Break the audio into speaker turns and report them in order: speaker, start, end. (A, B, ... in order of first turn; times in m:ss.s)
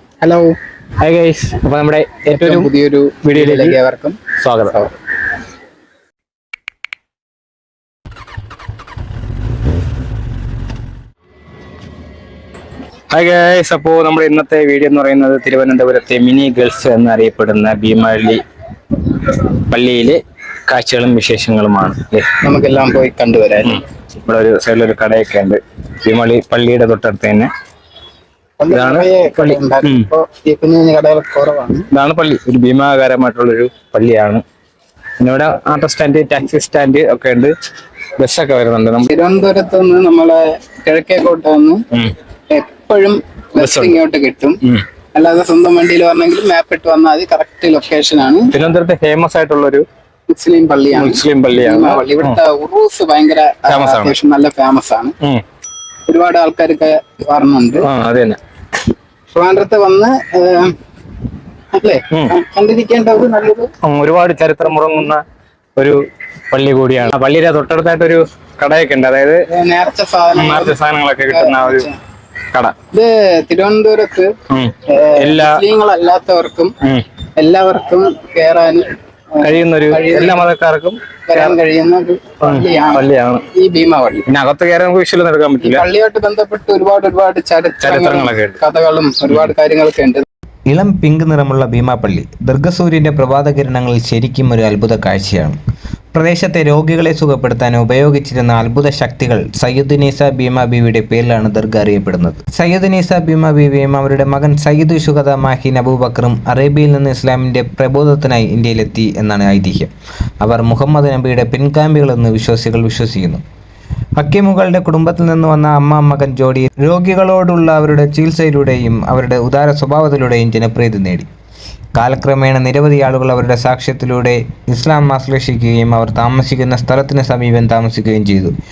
0:00.2-0:00.5 A
0:01.0-0:02.7 B
0:02.2-0:04.9 A
0:03.2-0:03.8 B
0:04.4-0:04.7 B
0:13.1-0:18.4 B
0:18.9-0:22.3 B
0:22.4-0:23.8 A
0:23.6-0:27.5 B
0:28.6-0:31.8 A
0:28.7-0:30.1 B
0:31.9-0:34.4 B
0:35.2-0:37.5 B
0:38.2-0:39.1 B
0:39.1-0:41.8 A
0:42.5-0:44.6 A
0:43.6-0:44.0 B
0:45.1-0:48.5 A
0:48.5-0:49.8 B
0:50.3-0:55.1 A
0:50.9-0:52.4 B
0:53.7-0:54.1 B
0:56.1-0:57.8 A
0:57.8-0:58.4 B
0:59.3-1:00.7 A
1:01.7-1:03.7 A
1:03.8-1:05.2 B
1:06.5-1:09.4 B
1:09.5-1:10.8 A
1:10.3-1:11.9 B
1:11.3-1:11.9 A
1:12.9-1:14.3 A
1:14.5-1:15.6 B
1:14.9-1:16.7 A
1:17.4-1:20.5 A
1:19.4-1:21.6 B
1:21.3-1:24.2 A
1:22.4-1:23.4 B
1:24.3-1:25.8 B
1:25.6-1:30.2 A
1:27.8-1:28.6 B
1:30.7-1:35.6 C
1:36.1-1:53.4 C
1:54.2-2:01.3 C
2:01.9-2:08.5 C